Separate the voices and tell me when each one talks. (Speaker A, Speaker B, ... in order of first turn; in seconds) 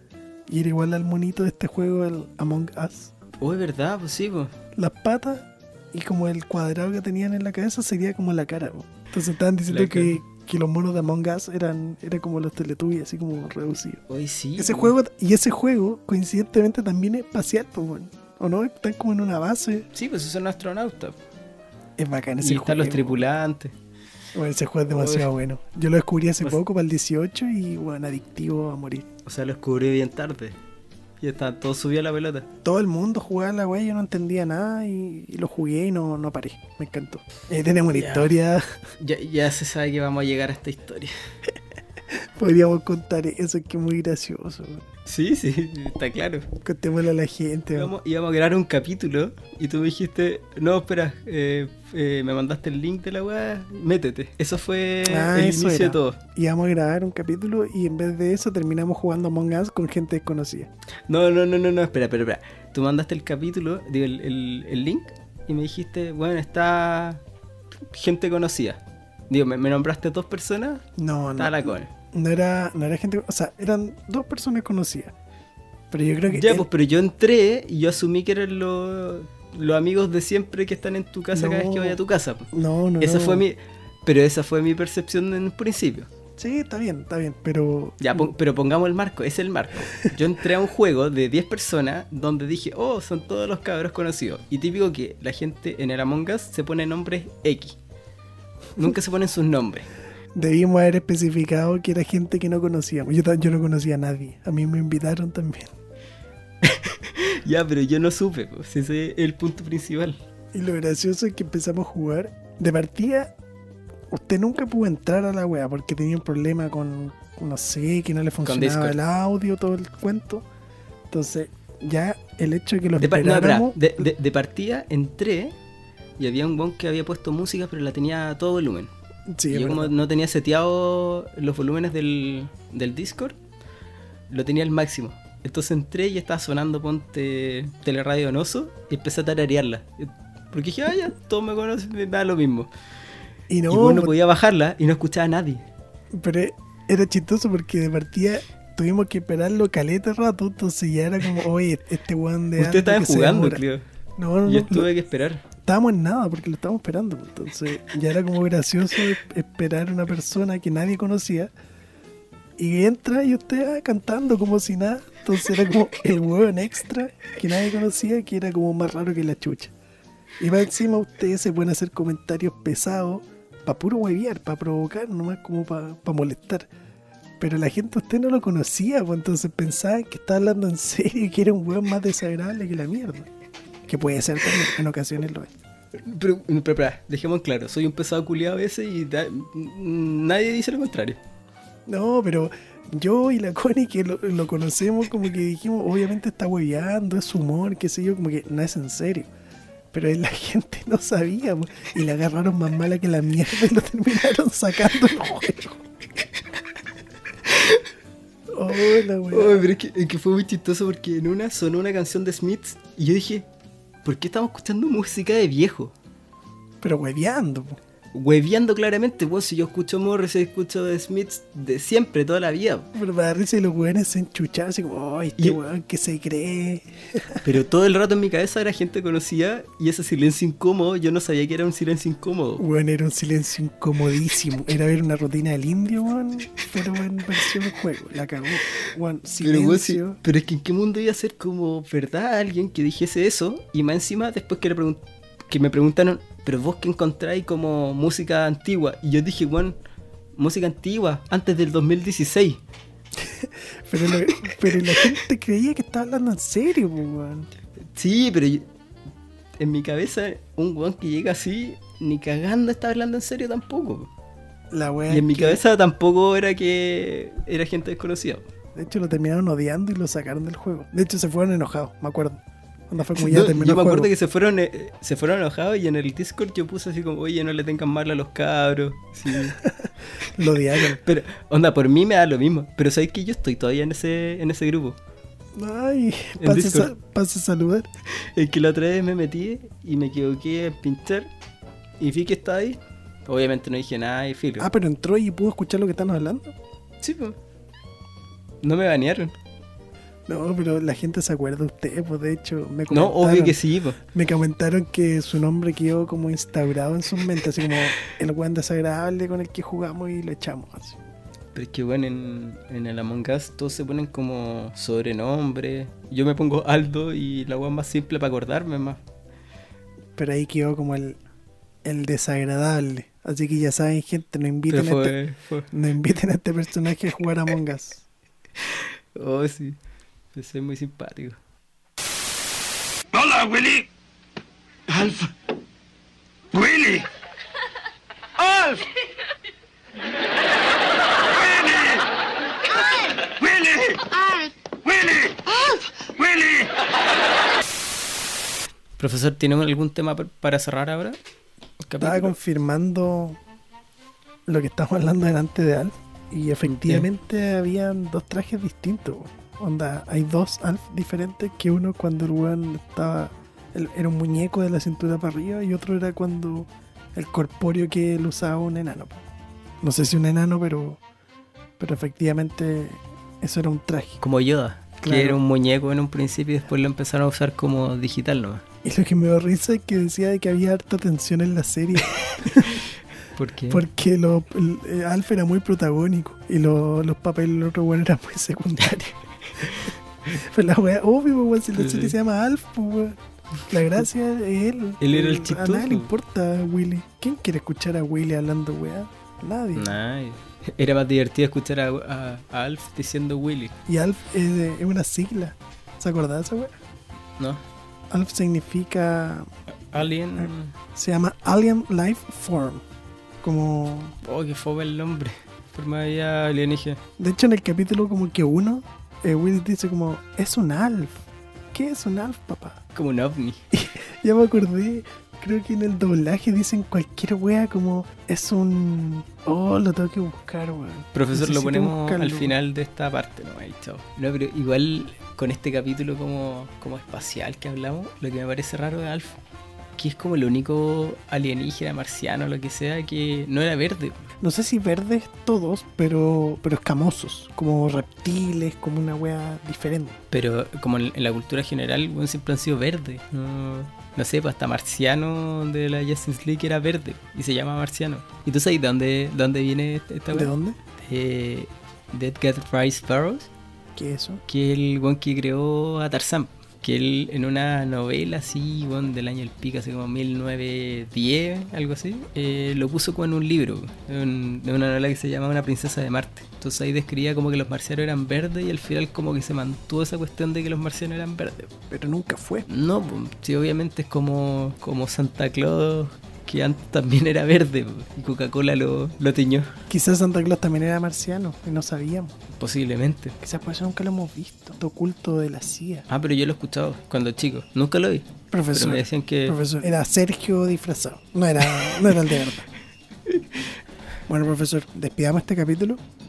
Speaker A: 0.5-3.1, 4.8-14.0, 14.6-19.9, 22.0-23.2, 24.3-29.1, 32.6-38.6, 42.1-44.8, 46.6-47.9, 55.0-60.7, 71.0-75.1, 75.9-76.7, 81.3-82.0, 82.5-83.4, 86.4-88.3, 100.3-105.7, 110.5-113.3, 114.1-120.4, 121.1-124.1, 129.3-129.9, 143.5-144.1, 146.1-153.6, 154.2-154.9, 155.6-161.5, 162.6-169.7, 170.4-176.7, 177.4-183.3, 183.9-185.5, 191.9-199.3, 199.9-205.8, 208.5-209.6, 216.8-217.8, 222.9-227.4, 232.6-240.2, 253.2-257.5, 264.7-265.6, 268.7-274.1, 279.3-281.0, 285.6-287.9, 294.6-296.5, 300.3-311.0, 320.1-321.2, 321.8-325.2, 325.7-328.0, 352.0-353.4, 354.5-369.2, 369.8-371.0, 371.8-374.2, 375.0-375.4, 378.8-382.8, 383.7-399.9, 403.9-406.7, 408.1-409.5, 410.3-412.8, 413.4-414.1, 417.2-421.2, 421.7-422.8, 423.7-432.5, 444.4-450.2, 460.3-460.8, 463.9-464.4, 481.9-482.6, 489.9-492.3, 493.4-496.1, 498.5-502.6, 504.3-506.0
Speaker B: 3.4-4.5, 9.7-10.2, 14.1-14.9, 19.9-21.2, 22.4-23.7, 24.9-25.3, 29.2-30.6, 31.2-32.5, 37.9-38.3, 39.0-41.1, 45.1-46.5, 47.7-56.2, 61.1-67.2, 67.9-70.8, 71.4-71.9, 76.3-82.5, 83.0-86.1, 88.0-97.8, 98.8-99.9, 106.6-110.2, 118.4-119.0, 123.0-125.5, 126.2-128.9, 129.5-133.4, 134.3-142.7, 143.7-145.6, 152.6-153.8, 154.4-155.4, 185.9-191.2, 207.4-207.9, 209.3-213.5, 214.0-215.9, 218.1-222.9, 227.4-232.6, 239.4-249.7, 250.4-252.6, 254.1-255.1, 257.9-258.7, 259.6-264.1, 265.1-268.5, 273.1-279.6, 280.2-285.0, 286.4-286.9, 288.1-291.3, 292.0-294.7, 297.0-297.4, 298.6-299.4, 302.9-304.0, 311.5-319.0, 324.7-325.7, 328.6-329.8, 330.3-331.4, 349.0-351.2, 351.8-352.4, 356.6-357.1, 374.2-378.6, 383.3-383.8, 391.8-392.1, 395.0-396.1, 399.8-403.7, 409.9-410.7, 414.2-417.0, 422.9-423.6, 431.1-439.4, 440.0-444.3, 450.3-463.5, 464.5-481.7, 482.7-489.8, 492.5-493.4, 496.1-499.6, 503.3-503.6
Speaker C: 333.1-333.9, 334.9-335.3, 336.5-337.1, 338.4-338.8, 341.4-341.9, 343.4-344.0, 344.9-345.3, 346.2-346.6